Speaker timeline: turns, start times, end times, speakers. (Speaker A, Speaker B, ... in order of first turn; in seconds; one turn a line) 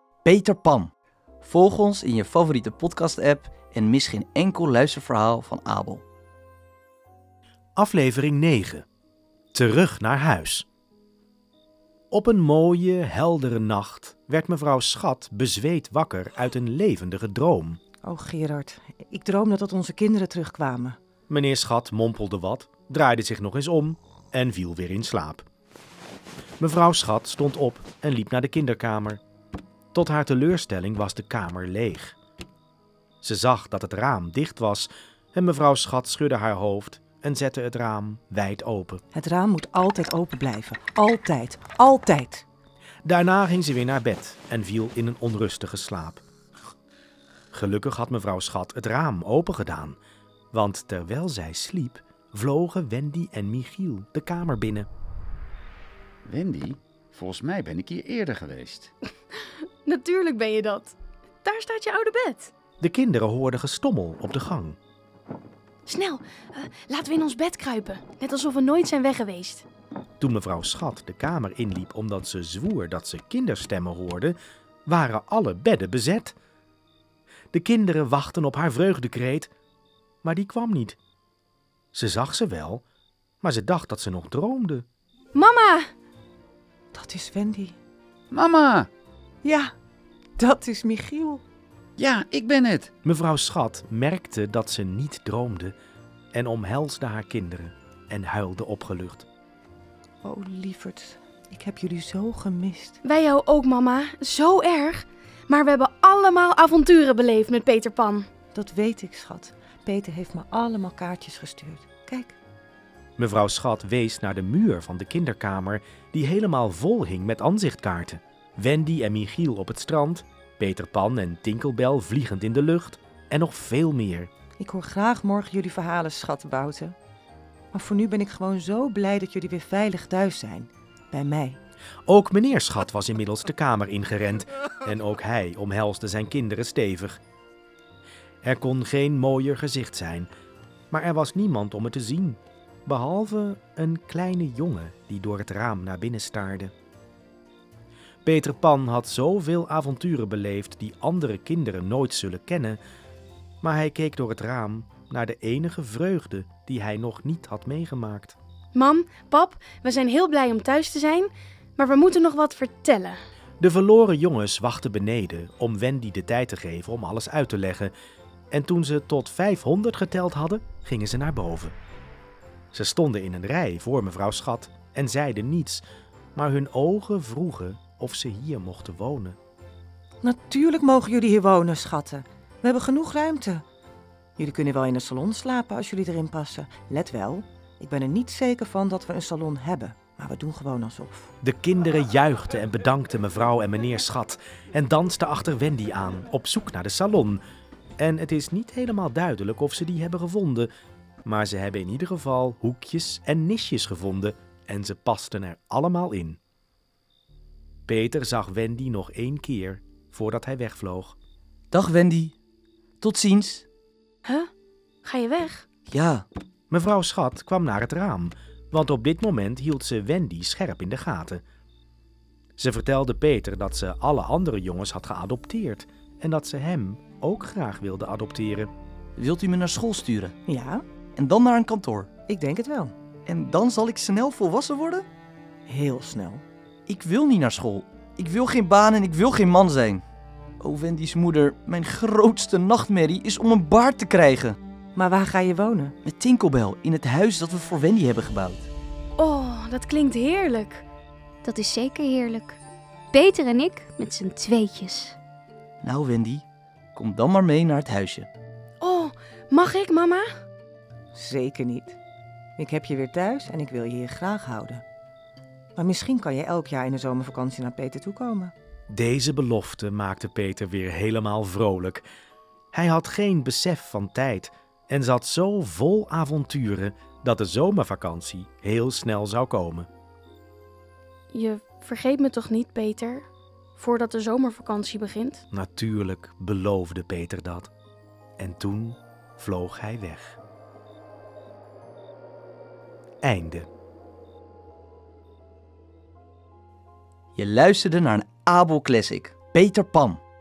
Speaker A: 0.2-0.9
Speaker A: 1.4-6.0
Speaker B: 7.8-8.9
Speaker B: 9.5-10.7
Speaker B: 12.1-17.8
Speaker C: 18.0-21.0
Speaker B: 21.3-25.4
Speaker B: 26.6-29.2
Speaker B: 29.9-32.2
Speaker B: 33.2-39.0
Speaker C: 39.1-42.5
Speaker B: 43.0-46.2
Speaker B: 47.5-50.0
Speaker B: 50.5-54.9
Speaker D: 56.3-58.9
Speaker E: 59.9-62.5
Speaker B: 62.8-64.8
Speaker E: 65.9-69.7
Speaker B: 70.2-76.4
Speaker B: 77.5-79.5
Speaker B: 80.2-81.0
Speaker B: 81.9-82.8
Speaker B: 83.4-84.9
Speaker E: 85.3-85.9
Speaker C: 86.9-87.8
Speaker D: 88.3-88.9
Speaker C: 89.4-89.7
Speaker C: 90.4-91.4
Speaker D: 92.0-92.9
Speaker B: 93.0-95.8
Speaker B: 96.3-99.3
Speaker C: 100.2-103.0
Speaker E: 103.0-108.3
Speaker C: 108.5-112.4
Speaker B: 113.2-124.3
Speaker C: 124.6-127.0
Speaker C: 127.7-131.6
Speaker B: 132.1-137.2
Speaker B: 138.4-140.3
Speaker B: 140.9-146.7
Speaker B: 148.2-152.8
Speaker B: 153.6-158.3
Speaker E: 158.7-163.2
Speaker B: 163.6-167.9
Speaker B: 168.5-171.8
Speaker B: 172.7-175.8
Speaker B: 176.3-179.4
Speaker C: 180.2-183.6
Speaker C: 184.4-191.3
Speaker B: 191.4-197.4
Speaker B: 198.0-200.7
Speaker B: 201.2-206.4
Speaker B: 207.9-211.2
Speaker A: 211.7-212.4
Speaker A: 213.0-213.7
Speaker E: 214.2-214.5
Speaker E: 215.0-215.7
Speaker A: 215.9-216.2
Speaker B: 216.7-221.4
Speaker B: 222.6-228.7
Speaker A: 229.2-230.3
Speaker C: 230.5-230.8
Speaker A: 231.2-232.1
Speaker C: 232.3-232.9
Speaker A: 233.3-235.1
Speaker C: 235.7-236.4
Speaker A: 236.9-240.0
Speaker A: 240.6-244.6
Speaker C: 244.9-246.0
Speaker A: 246.0-248.7
Speaker E: 249.2-250.8
Speaker F: 251.4-252.6
Speaker F: 253.1-255.2
Speaker A: 255.8-258.3
Speaker E: 258.8-260.3
Speaker C: 261.1-262.0
Speaker C: 262.6-264.8
Speaker C: 265.8-268.5
Speaker B: 268.9-272.1
Speaker B: 272.7-279.9
Speaker E: 281.3-285.4
Speaker B: 285.5-287.7
Speaker B: 288.4-290.4
Speaker B: 293.2-293.7
Speaker A: 297.4-300.2